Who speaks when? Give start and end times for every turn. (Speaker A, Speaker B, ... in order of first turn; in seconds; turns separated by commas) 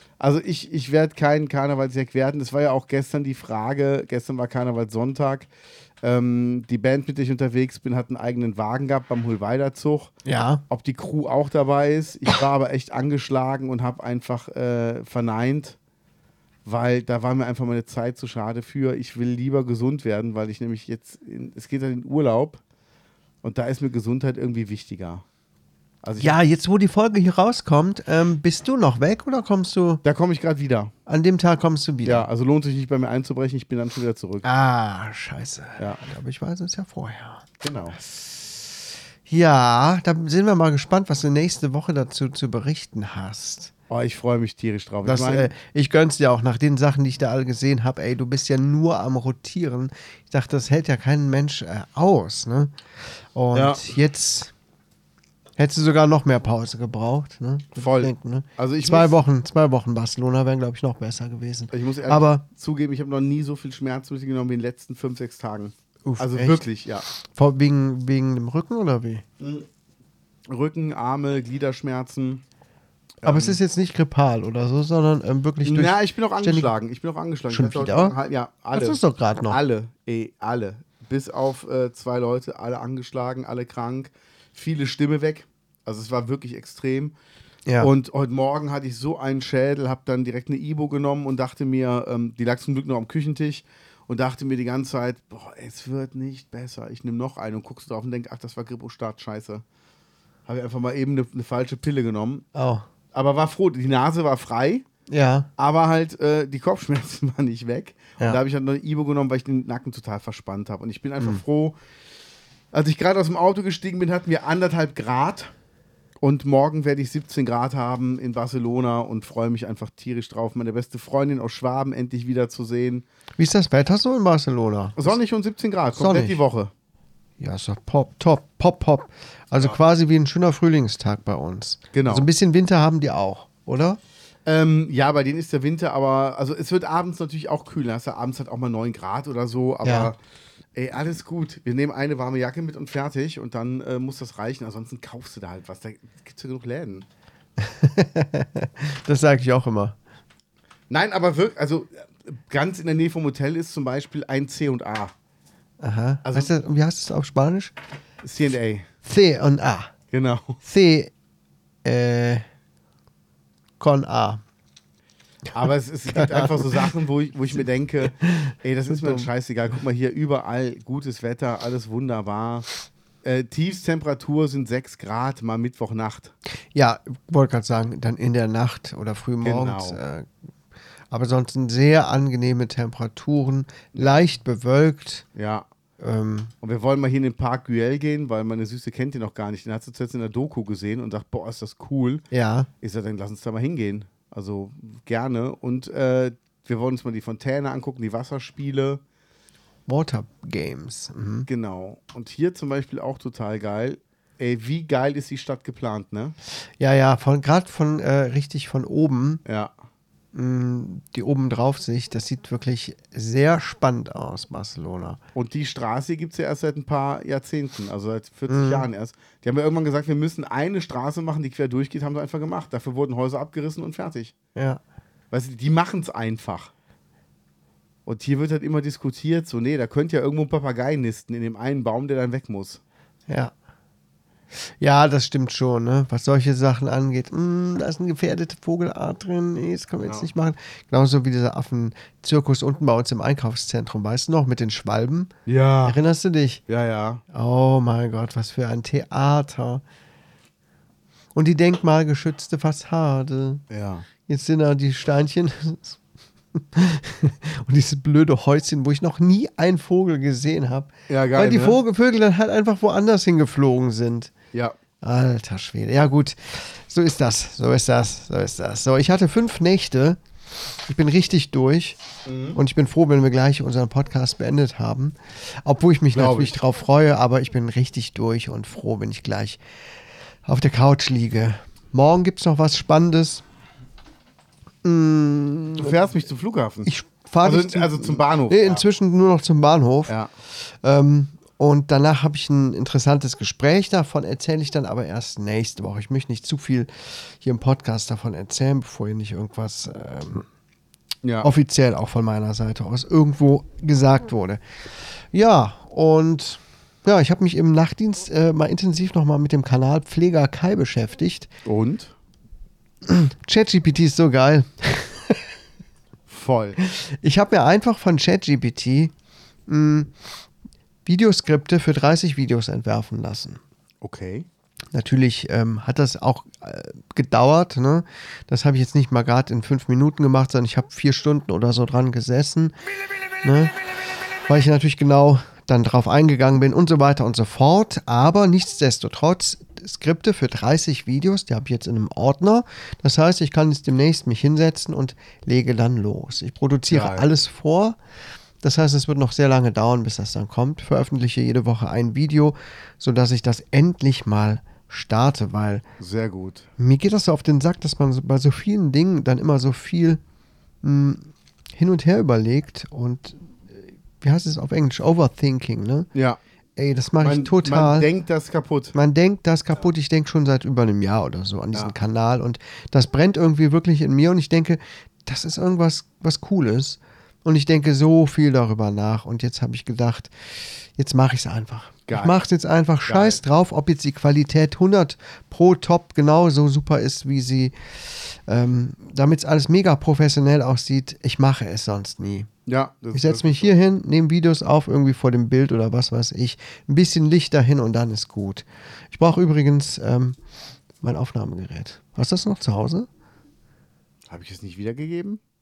Speaker A: 0.2-5.5, Speaker A: 6.0-10.1, Speaker B: 10.2-10.6, Speaker A: 10.7-15.8, Speaker A: 16.6-22.6, Speaker A: 23.4-25.2, Speaker A: 26.0-26.4, Speaker B: 26.2-30.0, Speaker A: 30.0-30.9, Speaker B: 31.1-32.3, Speaker A: 32.0-34.5, Speaker B: 34.4-37.4, Speaker A: 37.6-38.0, Speaker B: 38.0-38.7, Speaker B: 39.3-43.7, Speaker A: 43.9-45.5, Speaker B: 45.0-52.7, Speaker B: 53.3-54.5, Speaker A: 53.5-53.8, Speaker B: 55.6-62.4, Speaker A: 57.7-59.2, Speaker A: 61.7-67.0, Speaker B: 66.0-66.6, Speaker B: 67.2-69.2, Speaker A: 69.4-69.7, Speaker A: 70.5-72.4, Speaker A: 73.2-73.6, Speaker B: 73.2-76.7, Speaker A: 75.6-87.1, Speaker B: 77.5-78.2, Speaker B: 78.7-79.6, Speaker B: 87.7-87.9, Speaker A: 87.8-99.6, Speaker A: 100.5-102.5, Speaker B: 102.5-102.8, Speaker A: 103.1-104.8, Speaker B: 105.1-105.5, Speaker A: 105.6-111.8, Speaker A: 112.7-115.5, Speaker A: 116.2-123.0, Speaker B: 123.4-125.2, Speaker A: 125.0-126.7, Speaker B: 126.0-126.4, Speaker B: 127.4-134.0, Speaker A: 131.9-132.3, Speaker A: 134.4-140.2, Speaker B: 139.8-140.1, Speaker A: 140.8-147.1, Speaker B: 147.6-149.9, Speaker A: 150.9-155.1, Speaker B: 155.8-157.7, Speaker A: 156.2-156.5, Speaker A: 158.2-158.9, Speaker B: 159.0-159.9, Speaker A: 160.1-160.6, Speaker B: 160.6-161.1, Speaker B: 161.8-162.4, Speaker B: 163.8-164.4, Speaker A: 165.5-172.7, Speaker B: 166.1-166.9, Speaker B: 168.0-169.3, Speaker A: 173.2-176.3, Speaker B: 176.7-180.3, Speaker A: 179.4-180.0, Speaker B: 181.1-185.2, Speaker A: 183.9-184.2, Speaker A: 185.3-185.7, Speaker B: 186.0-186.5, Speaker A: 186.6-192.2, Speaker B: 192.3-192.7, Speaker A: 192.8-199.0, Speaker B: 199.9-201.5, Speaker A: 201.5-206.3, Speaker B: 206.8-209.4, Speaker A: 209.4-209.7, Speaker B: 210.3-215.2, Speaker A: 215.3-224.3, Speaker B: 218.5-218.8, Speaker B: 224.6-224.8, Speaker A: 225.3-226.7, Speaker A: 228.1-232.8, Speaker B: 233.3-233.5, Speaker B: 234.6-245.3, Speaker A: 245.4-246.0, Speaker B: 245.8-246.6, Speaker A: 246.7-247.2, Speaker B: 247.3-249.8, Speaker B: 251.3-253.6, Speaker A: 253.7-254.0, Speaker B: 254.3-256.0, Speaker B: 256.5-264.3, Speaker A: 261.1-261.8, Speaker B: 265.0-270.2, Speaker B: 270.9-272.0, Speaker A: 272.2-272.6, Speaker B: 272.5-279.6, Speaker A: 276.1-276.5, Speaker B: 280.4-283.4, Speaker B: 284.8-286.1, Speaker A: 285.8-286.9, Speaker B: 286.8-300.4, Speaker A: 287.4-288.8, Speaker A: 301.2-301.5, Speaker B: 301.4-311.5, Speaker A: 311.6-312.1, Speaker B: 313.0-315.5, Speaker A: 316.3-316.8, Speaker B: 316.8-319.1, Speaker B: 319.7-320.1, Speaker B: 321.0-323.6, Speaker A: 324.0-324.5, Speaker B: 324.9-332.7, Speaker B: 333.4-333.8, Speaker B: 334.4-348.0, Speaker A: 346.9-347.2, Speaker B: 348.6-355.8, Speaker A: 356.0-356.7, Speaker B: 356.8-360.2, Speaker B: 360.8-366.1, Speaker B: 366.8-368.1, Speaker A: 367.2-368.9, Speaker B: 368.9-392.5, Speaker A: 382.1-382.4, Speaker A: 383.1-383.4, Speaker A: 392.7-393.7, Speaker B: 393.1-400.4, Speaker B: 401.0-403.1, Speaker A: 404.3-405.4